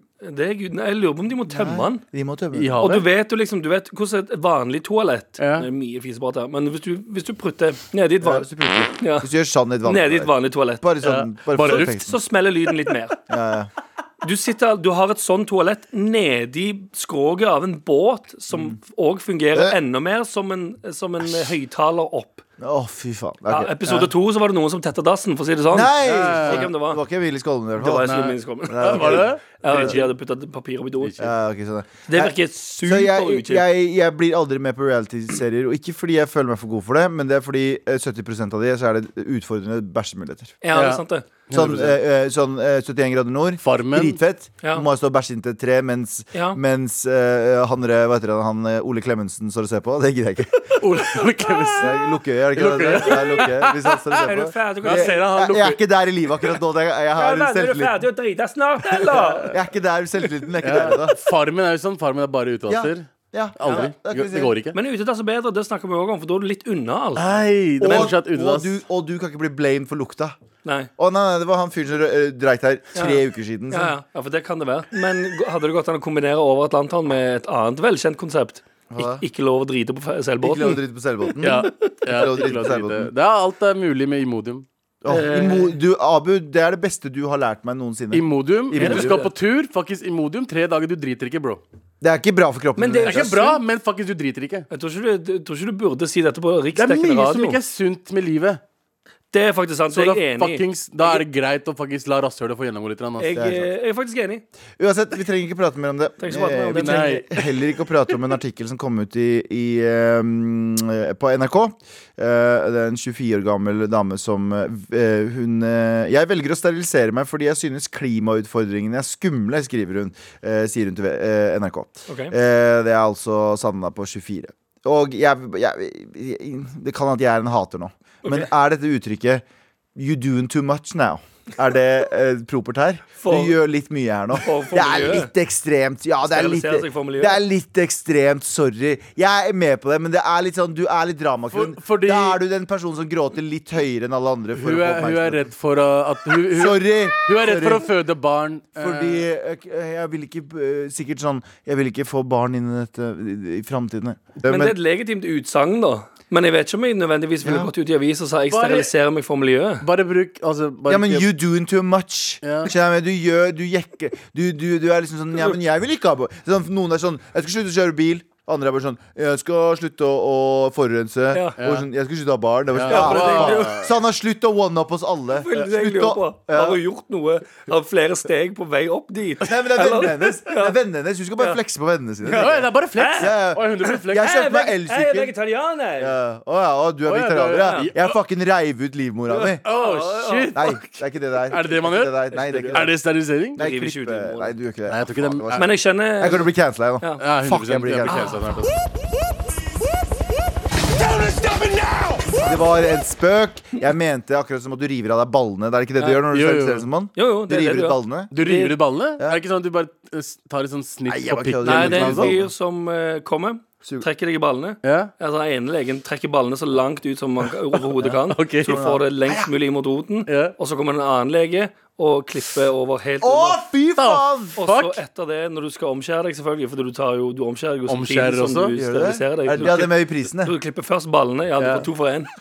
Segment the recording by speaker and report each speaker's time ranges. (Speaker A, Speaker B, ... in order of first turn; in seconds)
Speaker A: 0.2-2.0, 2.8-8.5, 9.0-9.3, 9.8-10.9, 11.6-13.2, 14.2-22.4, 23.5-27.0, 27.8-31.2, 32.1-33.7, 40.6-41.3, 44.6-44.9, 46.3-46.6, 54.2-55.4, 57.1-59.6, 63.6-63.9, 64.7-67.3, 67.8-68.1, 70.7-70.9, 73.0-73.2, 73.7-80.8, 81.5-82.0, 85.1-85.8, 88.8-89.3, 92.8-93.4, 94.7-97.6, 99.3-101.2, 103.2-104.4, 106.2-107.2, 122.1-122.3, 133.2-133.6, 134.3-135.3, 136.2-137.4, 154.4-159.8, 171.3-171.6, 172.9-173.9, 175.4-180.8, 182.2-186.2, 189.3-191.0, 192.5-192.9, 193.6-194.5, 195.6-196.5, 198.1-198.4, 207.2-208.8, 211.6-223.7, 224.6-232.3
Speaker B: 1.5-2.8, 8.2-12.2, 13.3-13.7, 18.5-18.8, 21.2-21.5, 22.6-24.0, 25.7-28.1, 28.7-30.1, 31.2-40.5, 41.5-50.7, 51.8-58.0, 59.5-61.2, 62.7-64.5, 67.8-70.4, 71.0-74.0, 78.9-79.2, 80.4-83.1, 85.0-89.2, 92.0-93.6, 103.3-103.7, 104.8-129.4, 129.9-145.4, 146.5-147.9, 148.8-154.8, 157.4-157.7, 160.9-176.8, 179.4-185.3, 186.0-189.6, 190.6-192.9, 193.6-198.3, 202.4-208.3, 211.1-212.5, 218.7-219.5, 223.2-224.6, 228.8-230.5
Speaker C: 2.5-3.1, 5.4-5.7, 11.0-12.0, 26.0-26.7, 28.1-30.0, 31.0-31.3, 40.7-42.0, 43.6-44.2, 50.8-52.0, 52.5-54.3, 54.8-55.8, 59.1-59.5, 60.6-64.8, 67.2-68.8, 81.4-84.7, 88.1-91.6, 93.0-94.7, 96.8-98.6, 99.9-103.5, 106.7-107.6, 141.5-142.4, 144.5-149.3, 158.5-158.9, 159.8-161.3, 162.4-162.7, 171.6-171.9, 172.7-173.9, 182.3-184.3, 187.1-188.1, 189.6-190.8, 191.5-193.6, 194.9-195.7, 197.2-198.7, 206.3-206.9, 208.3-212.4, 214.8-215.1, 218.1-218.8, 220.3-220.6, 224.0-225.0, 227.9-228.8, 231.6-231.9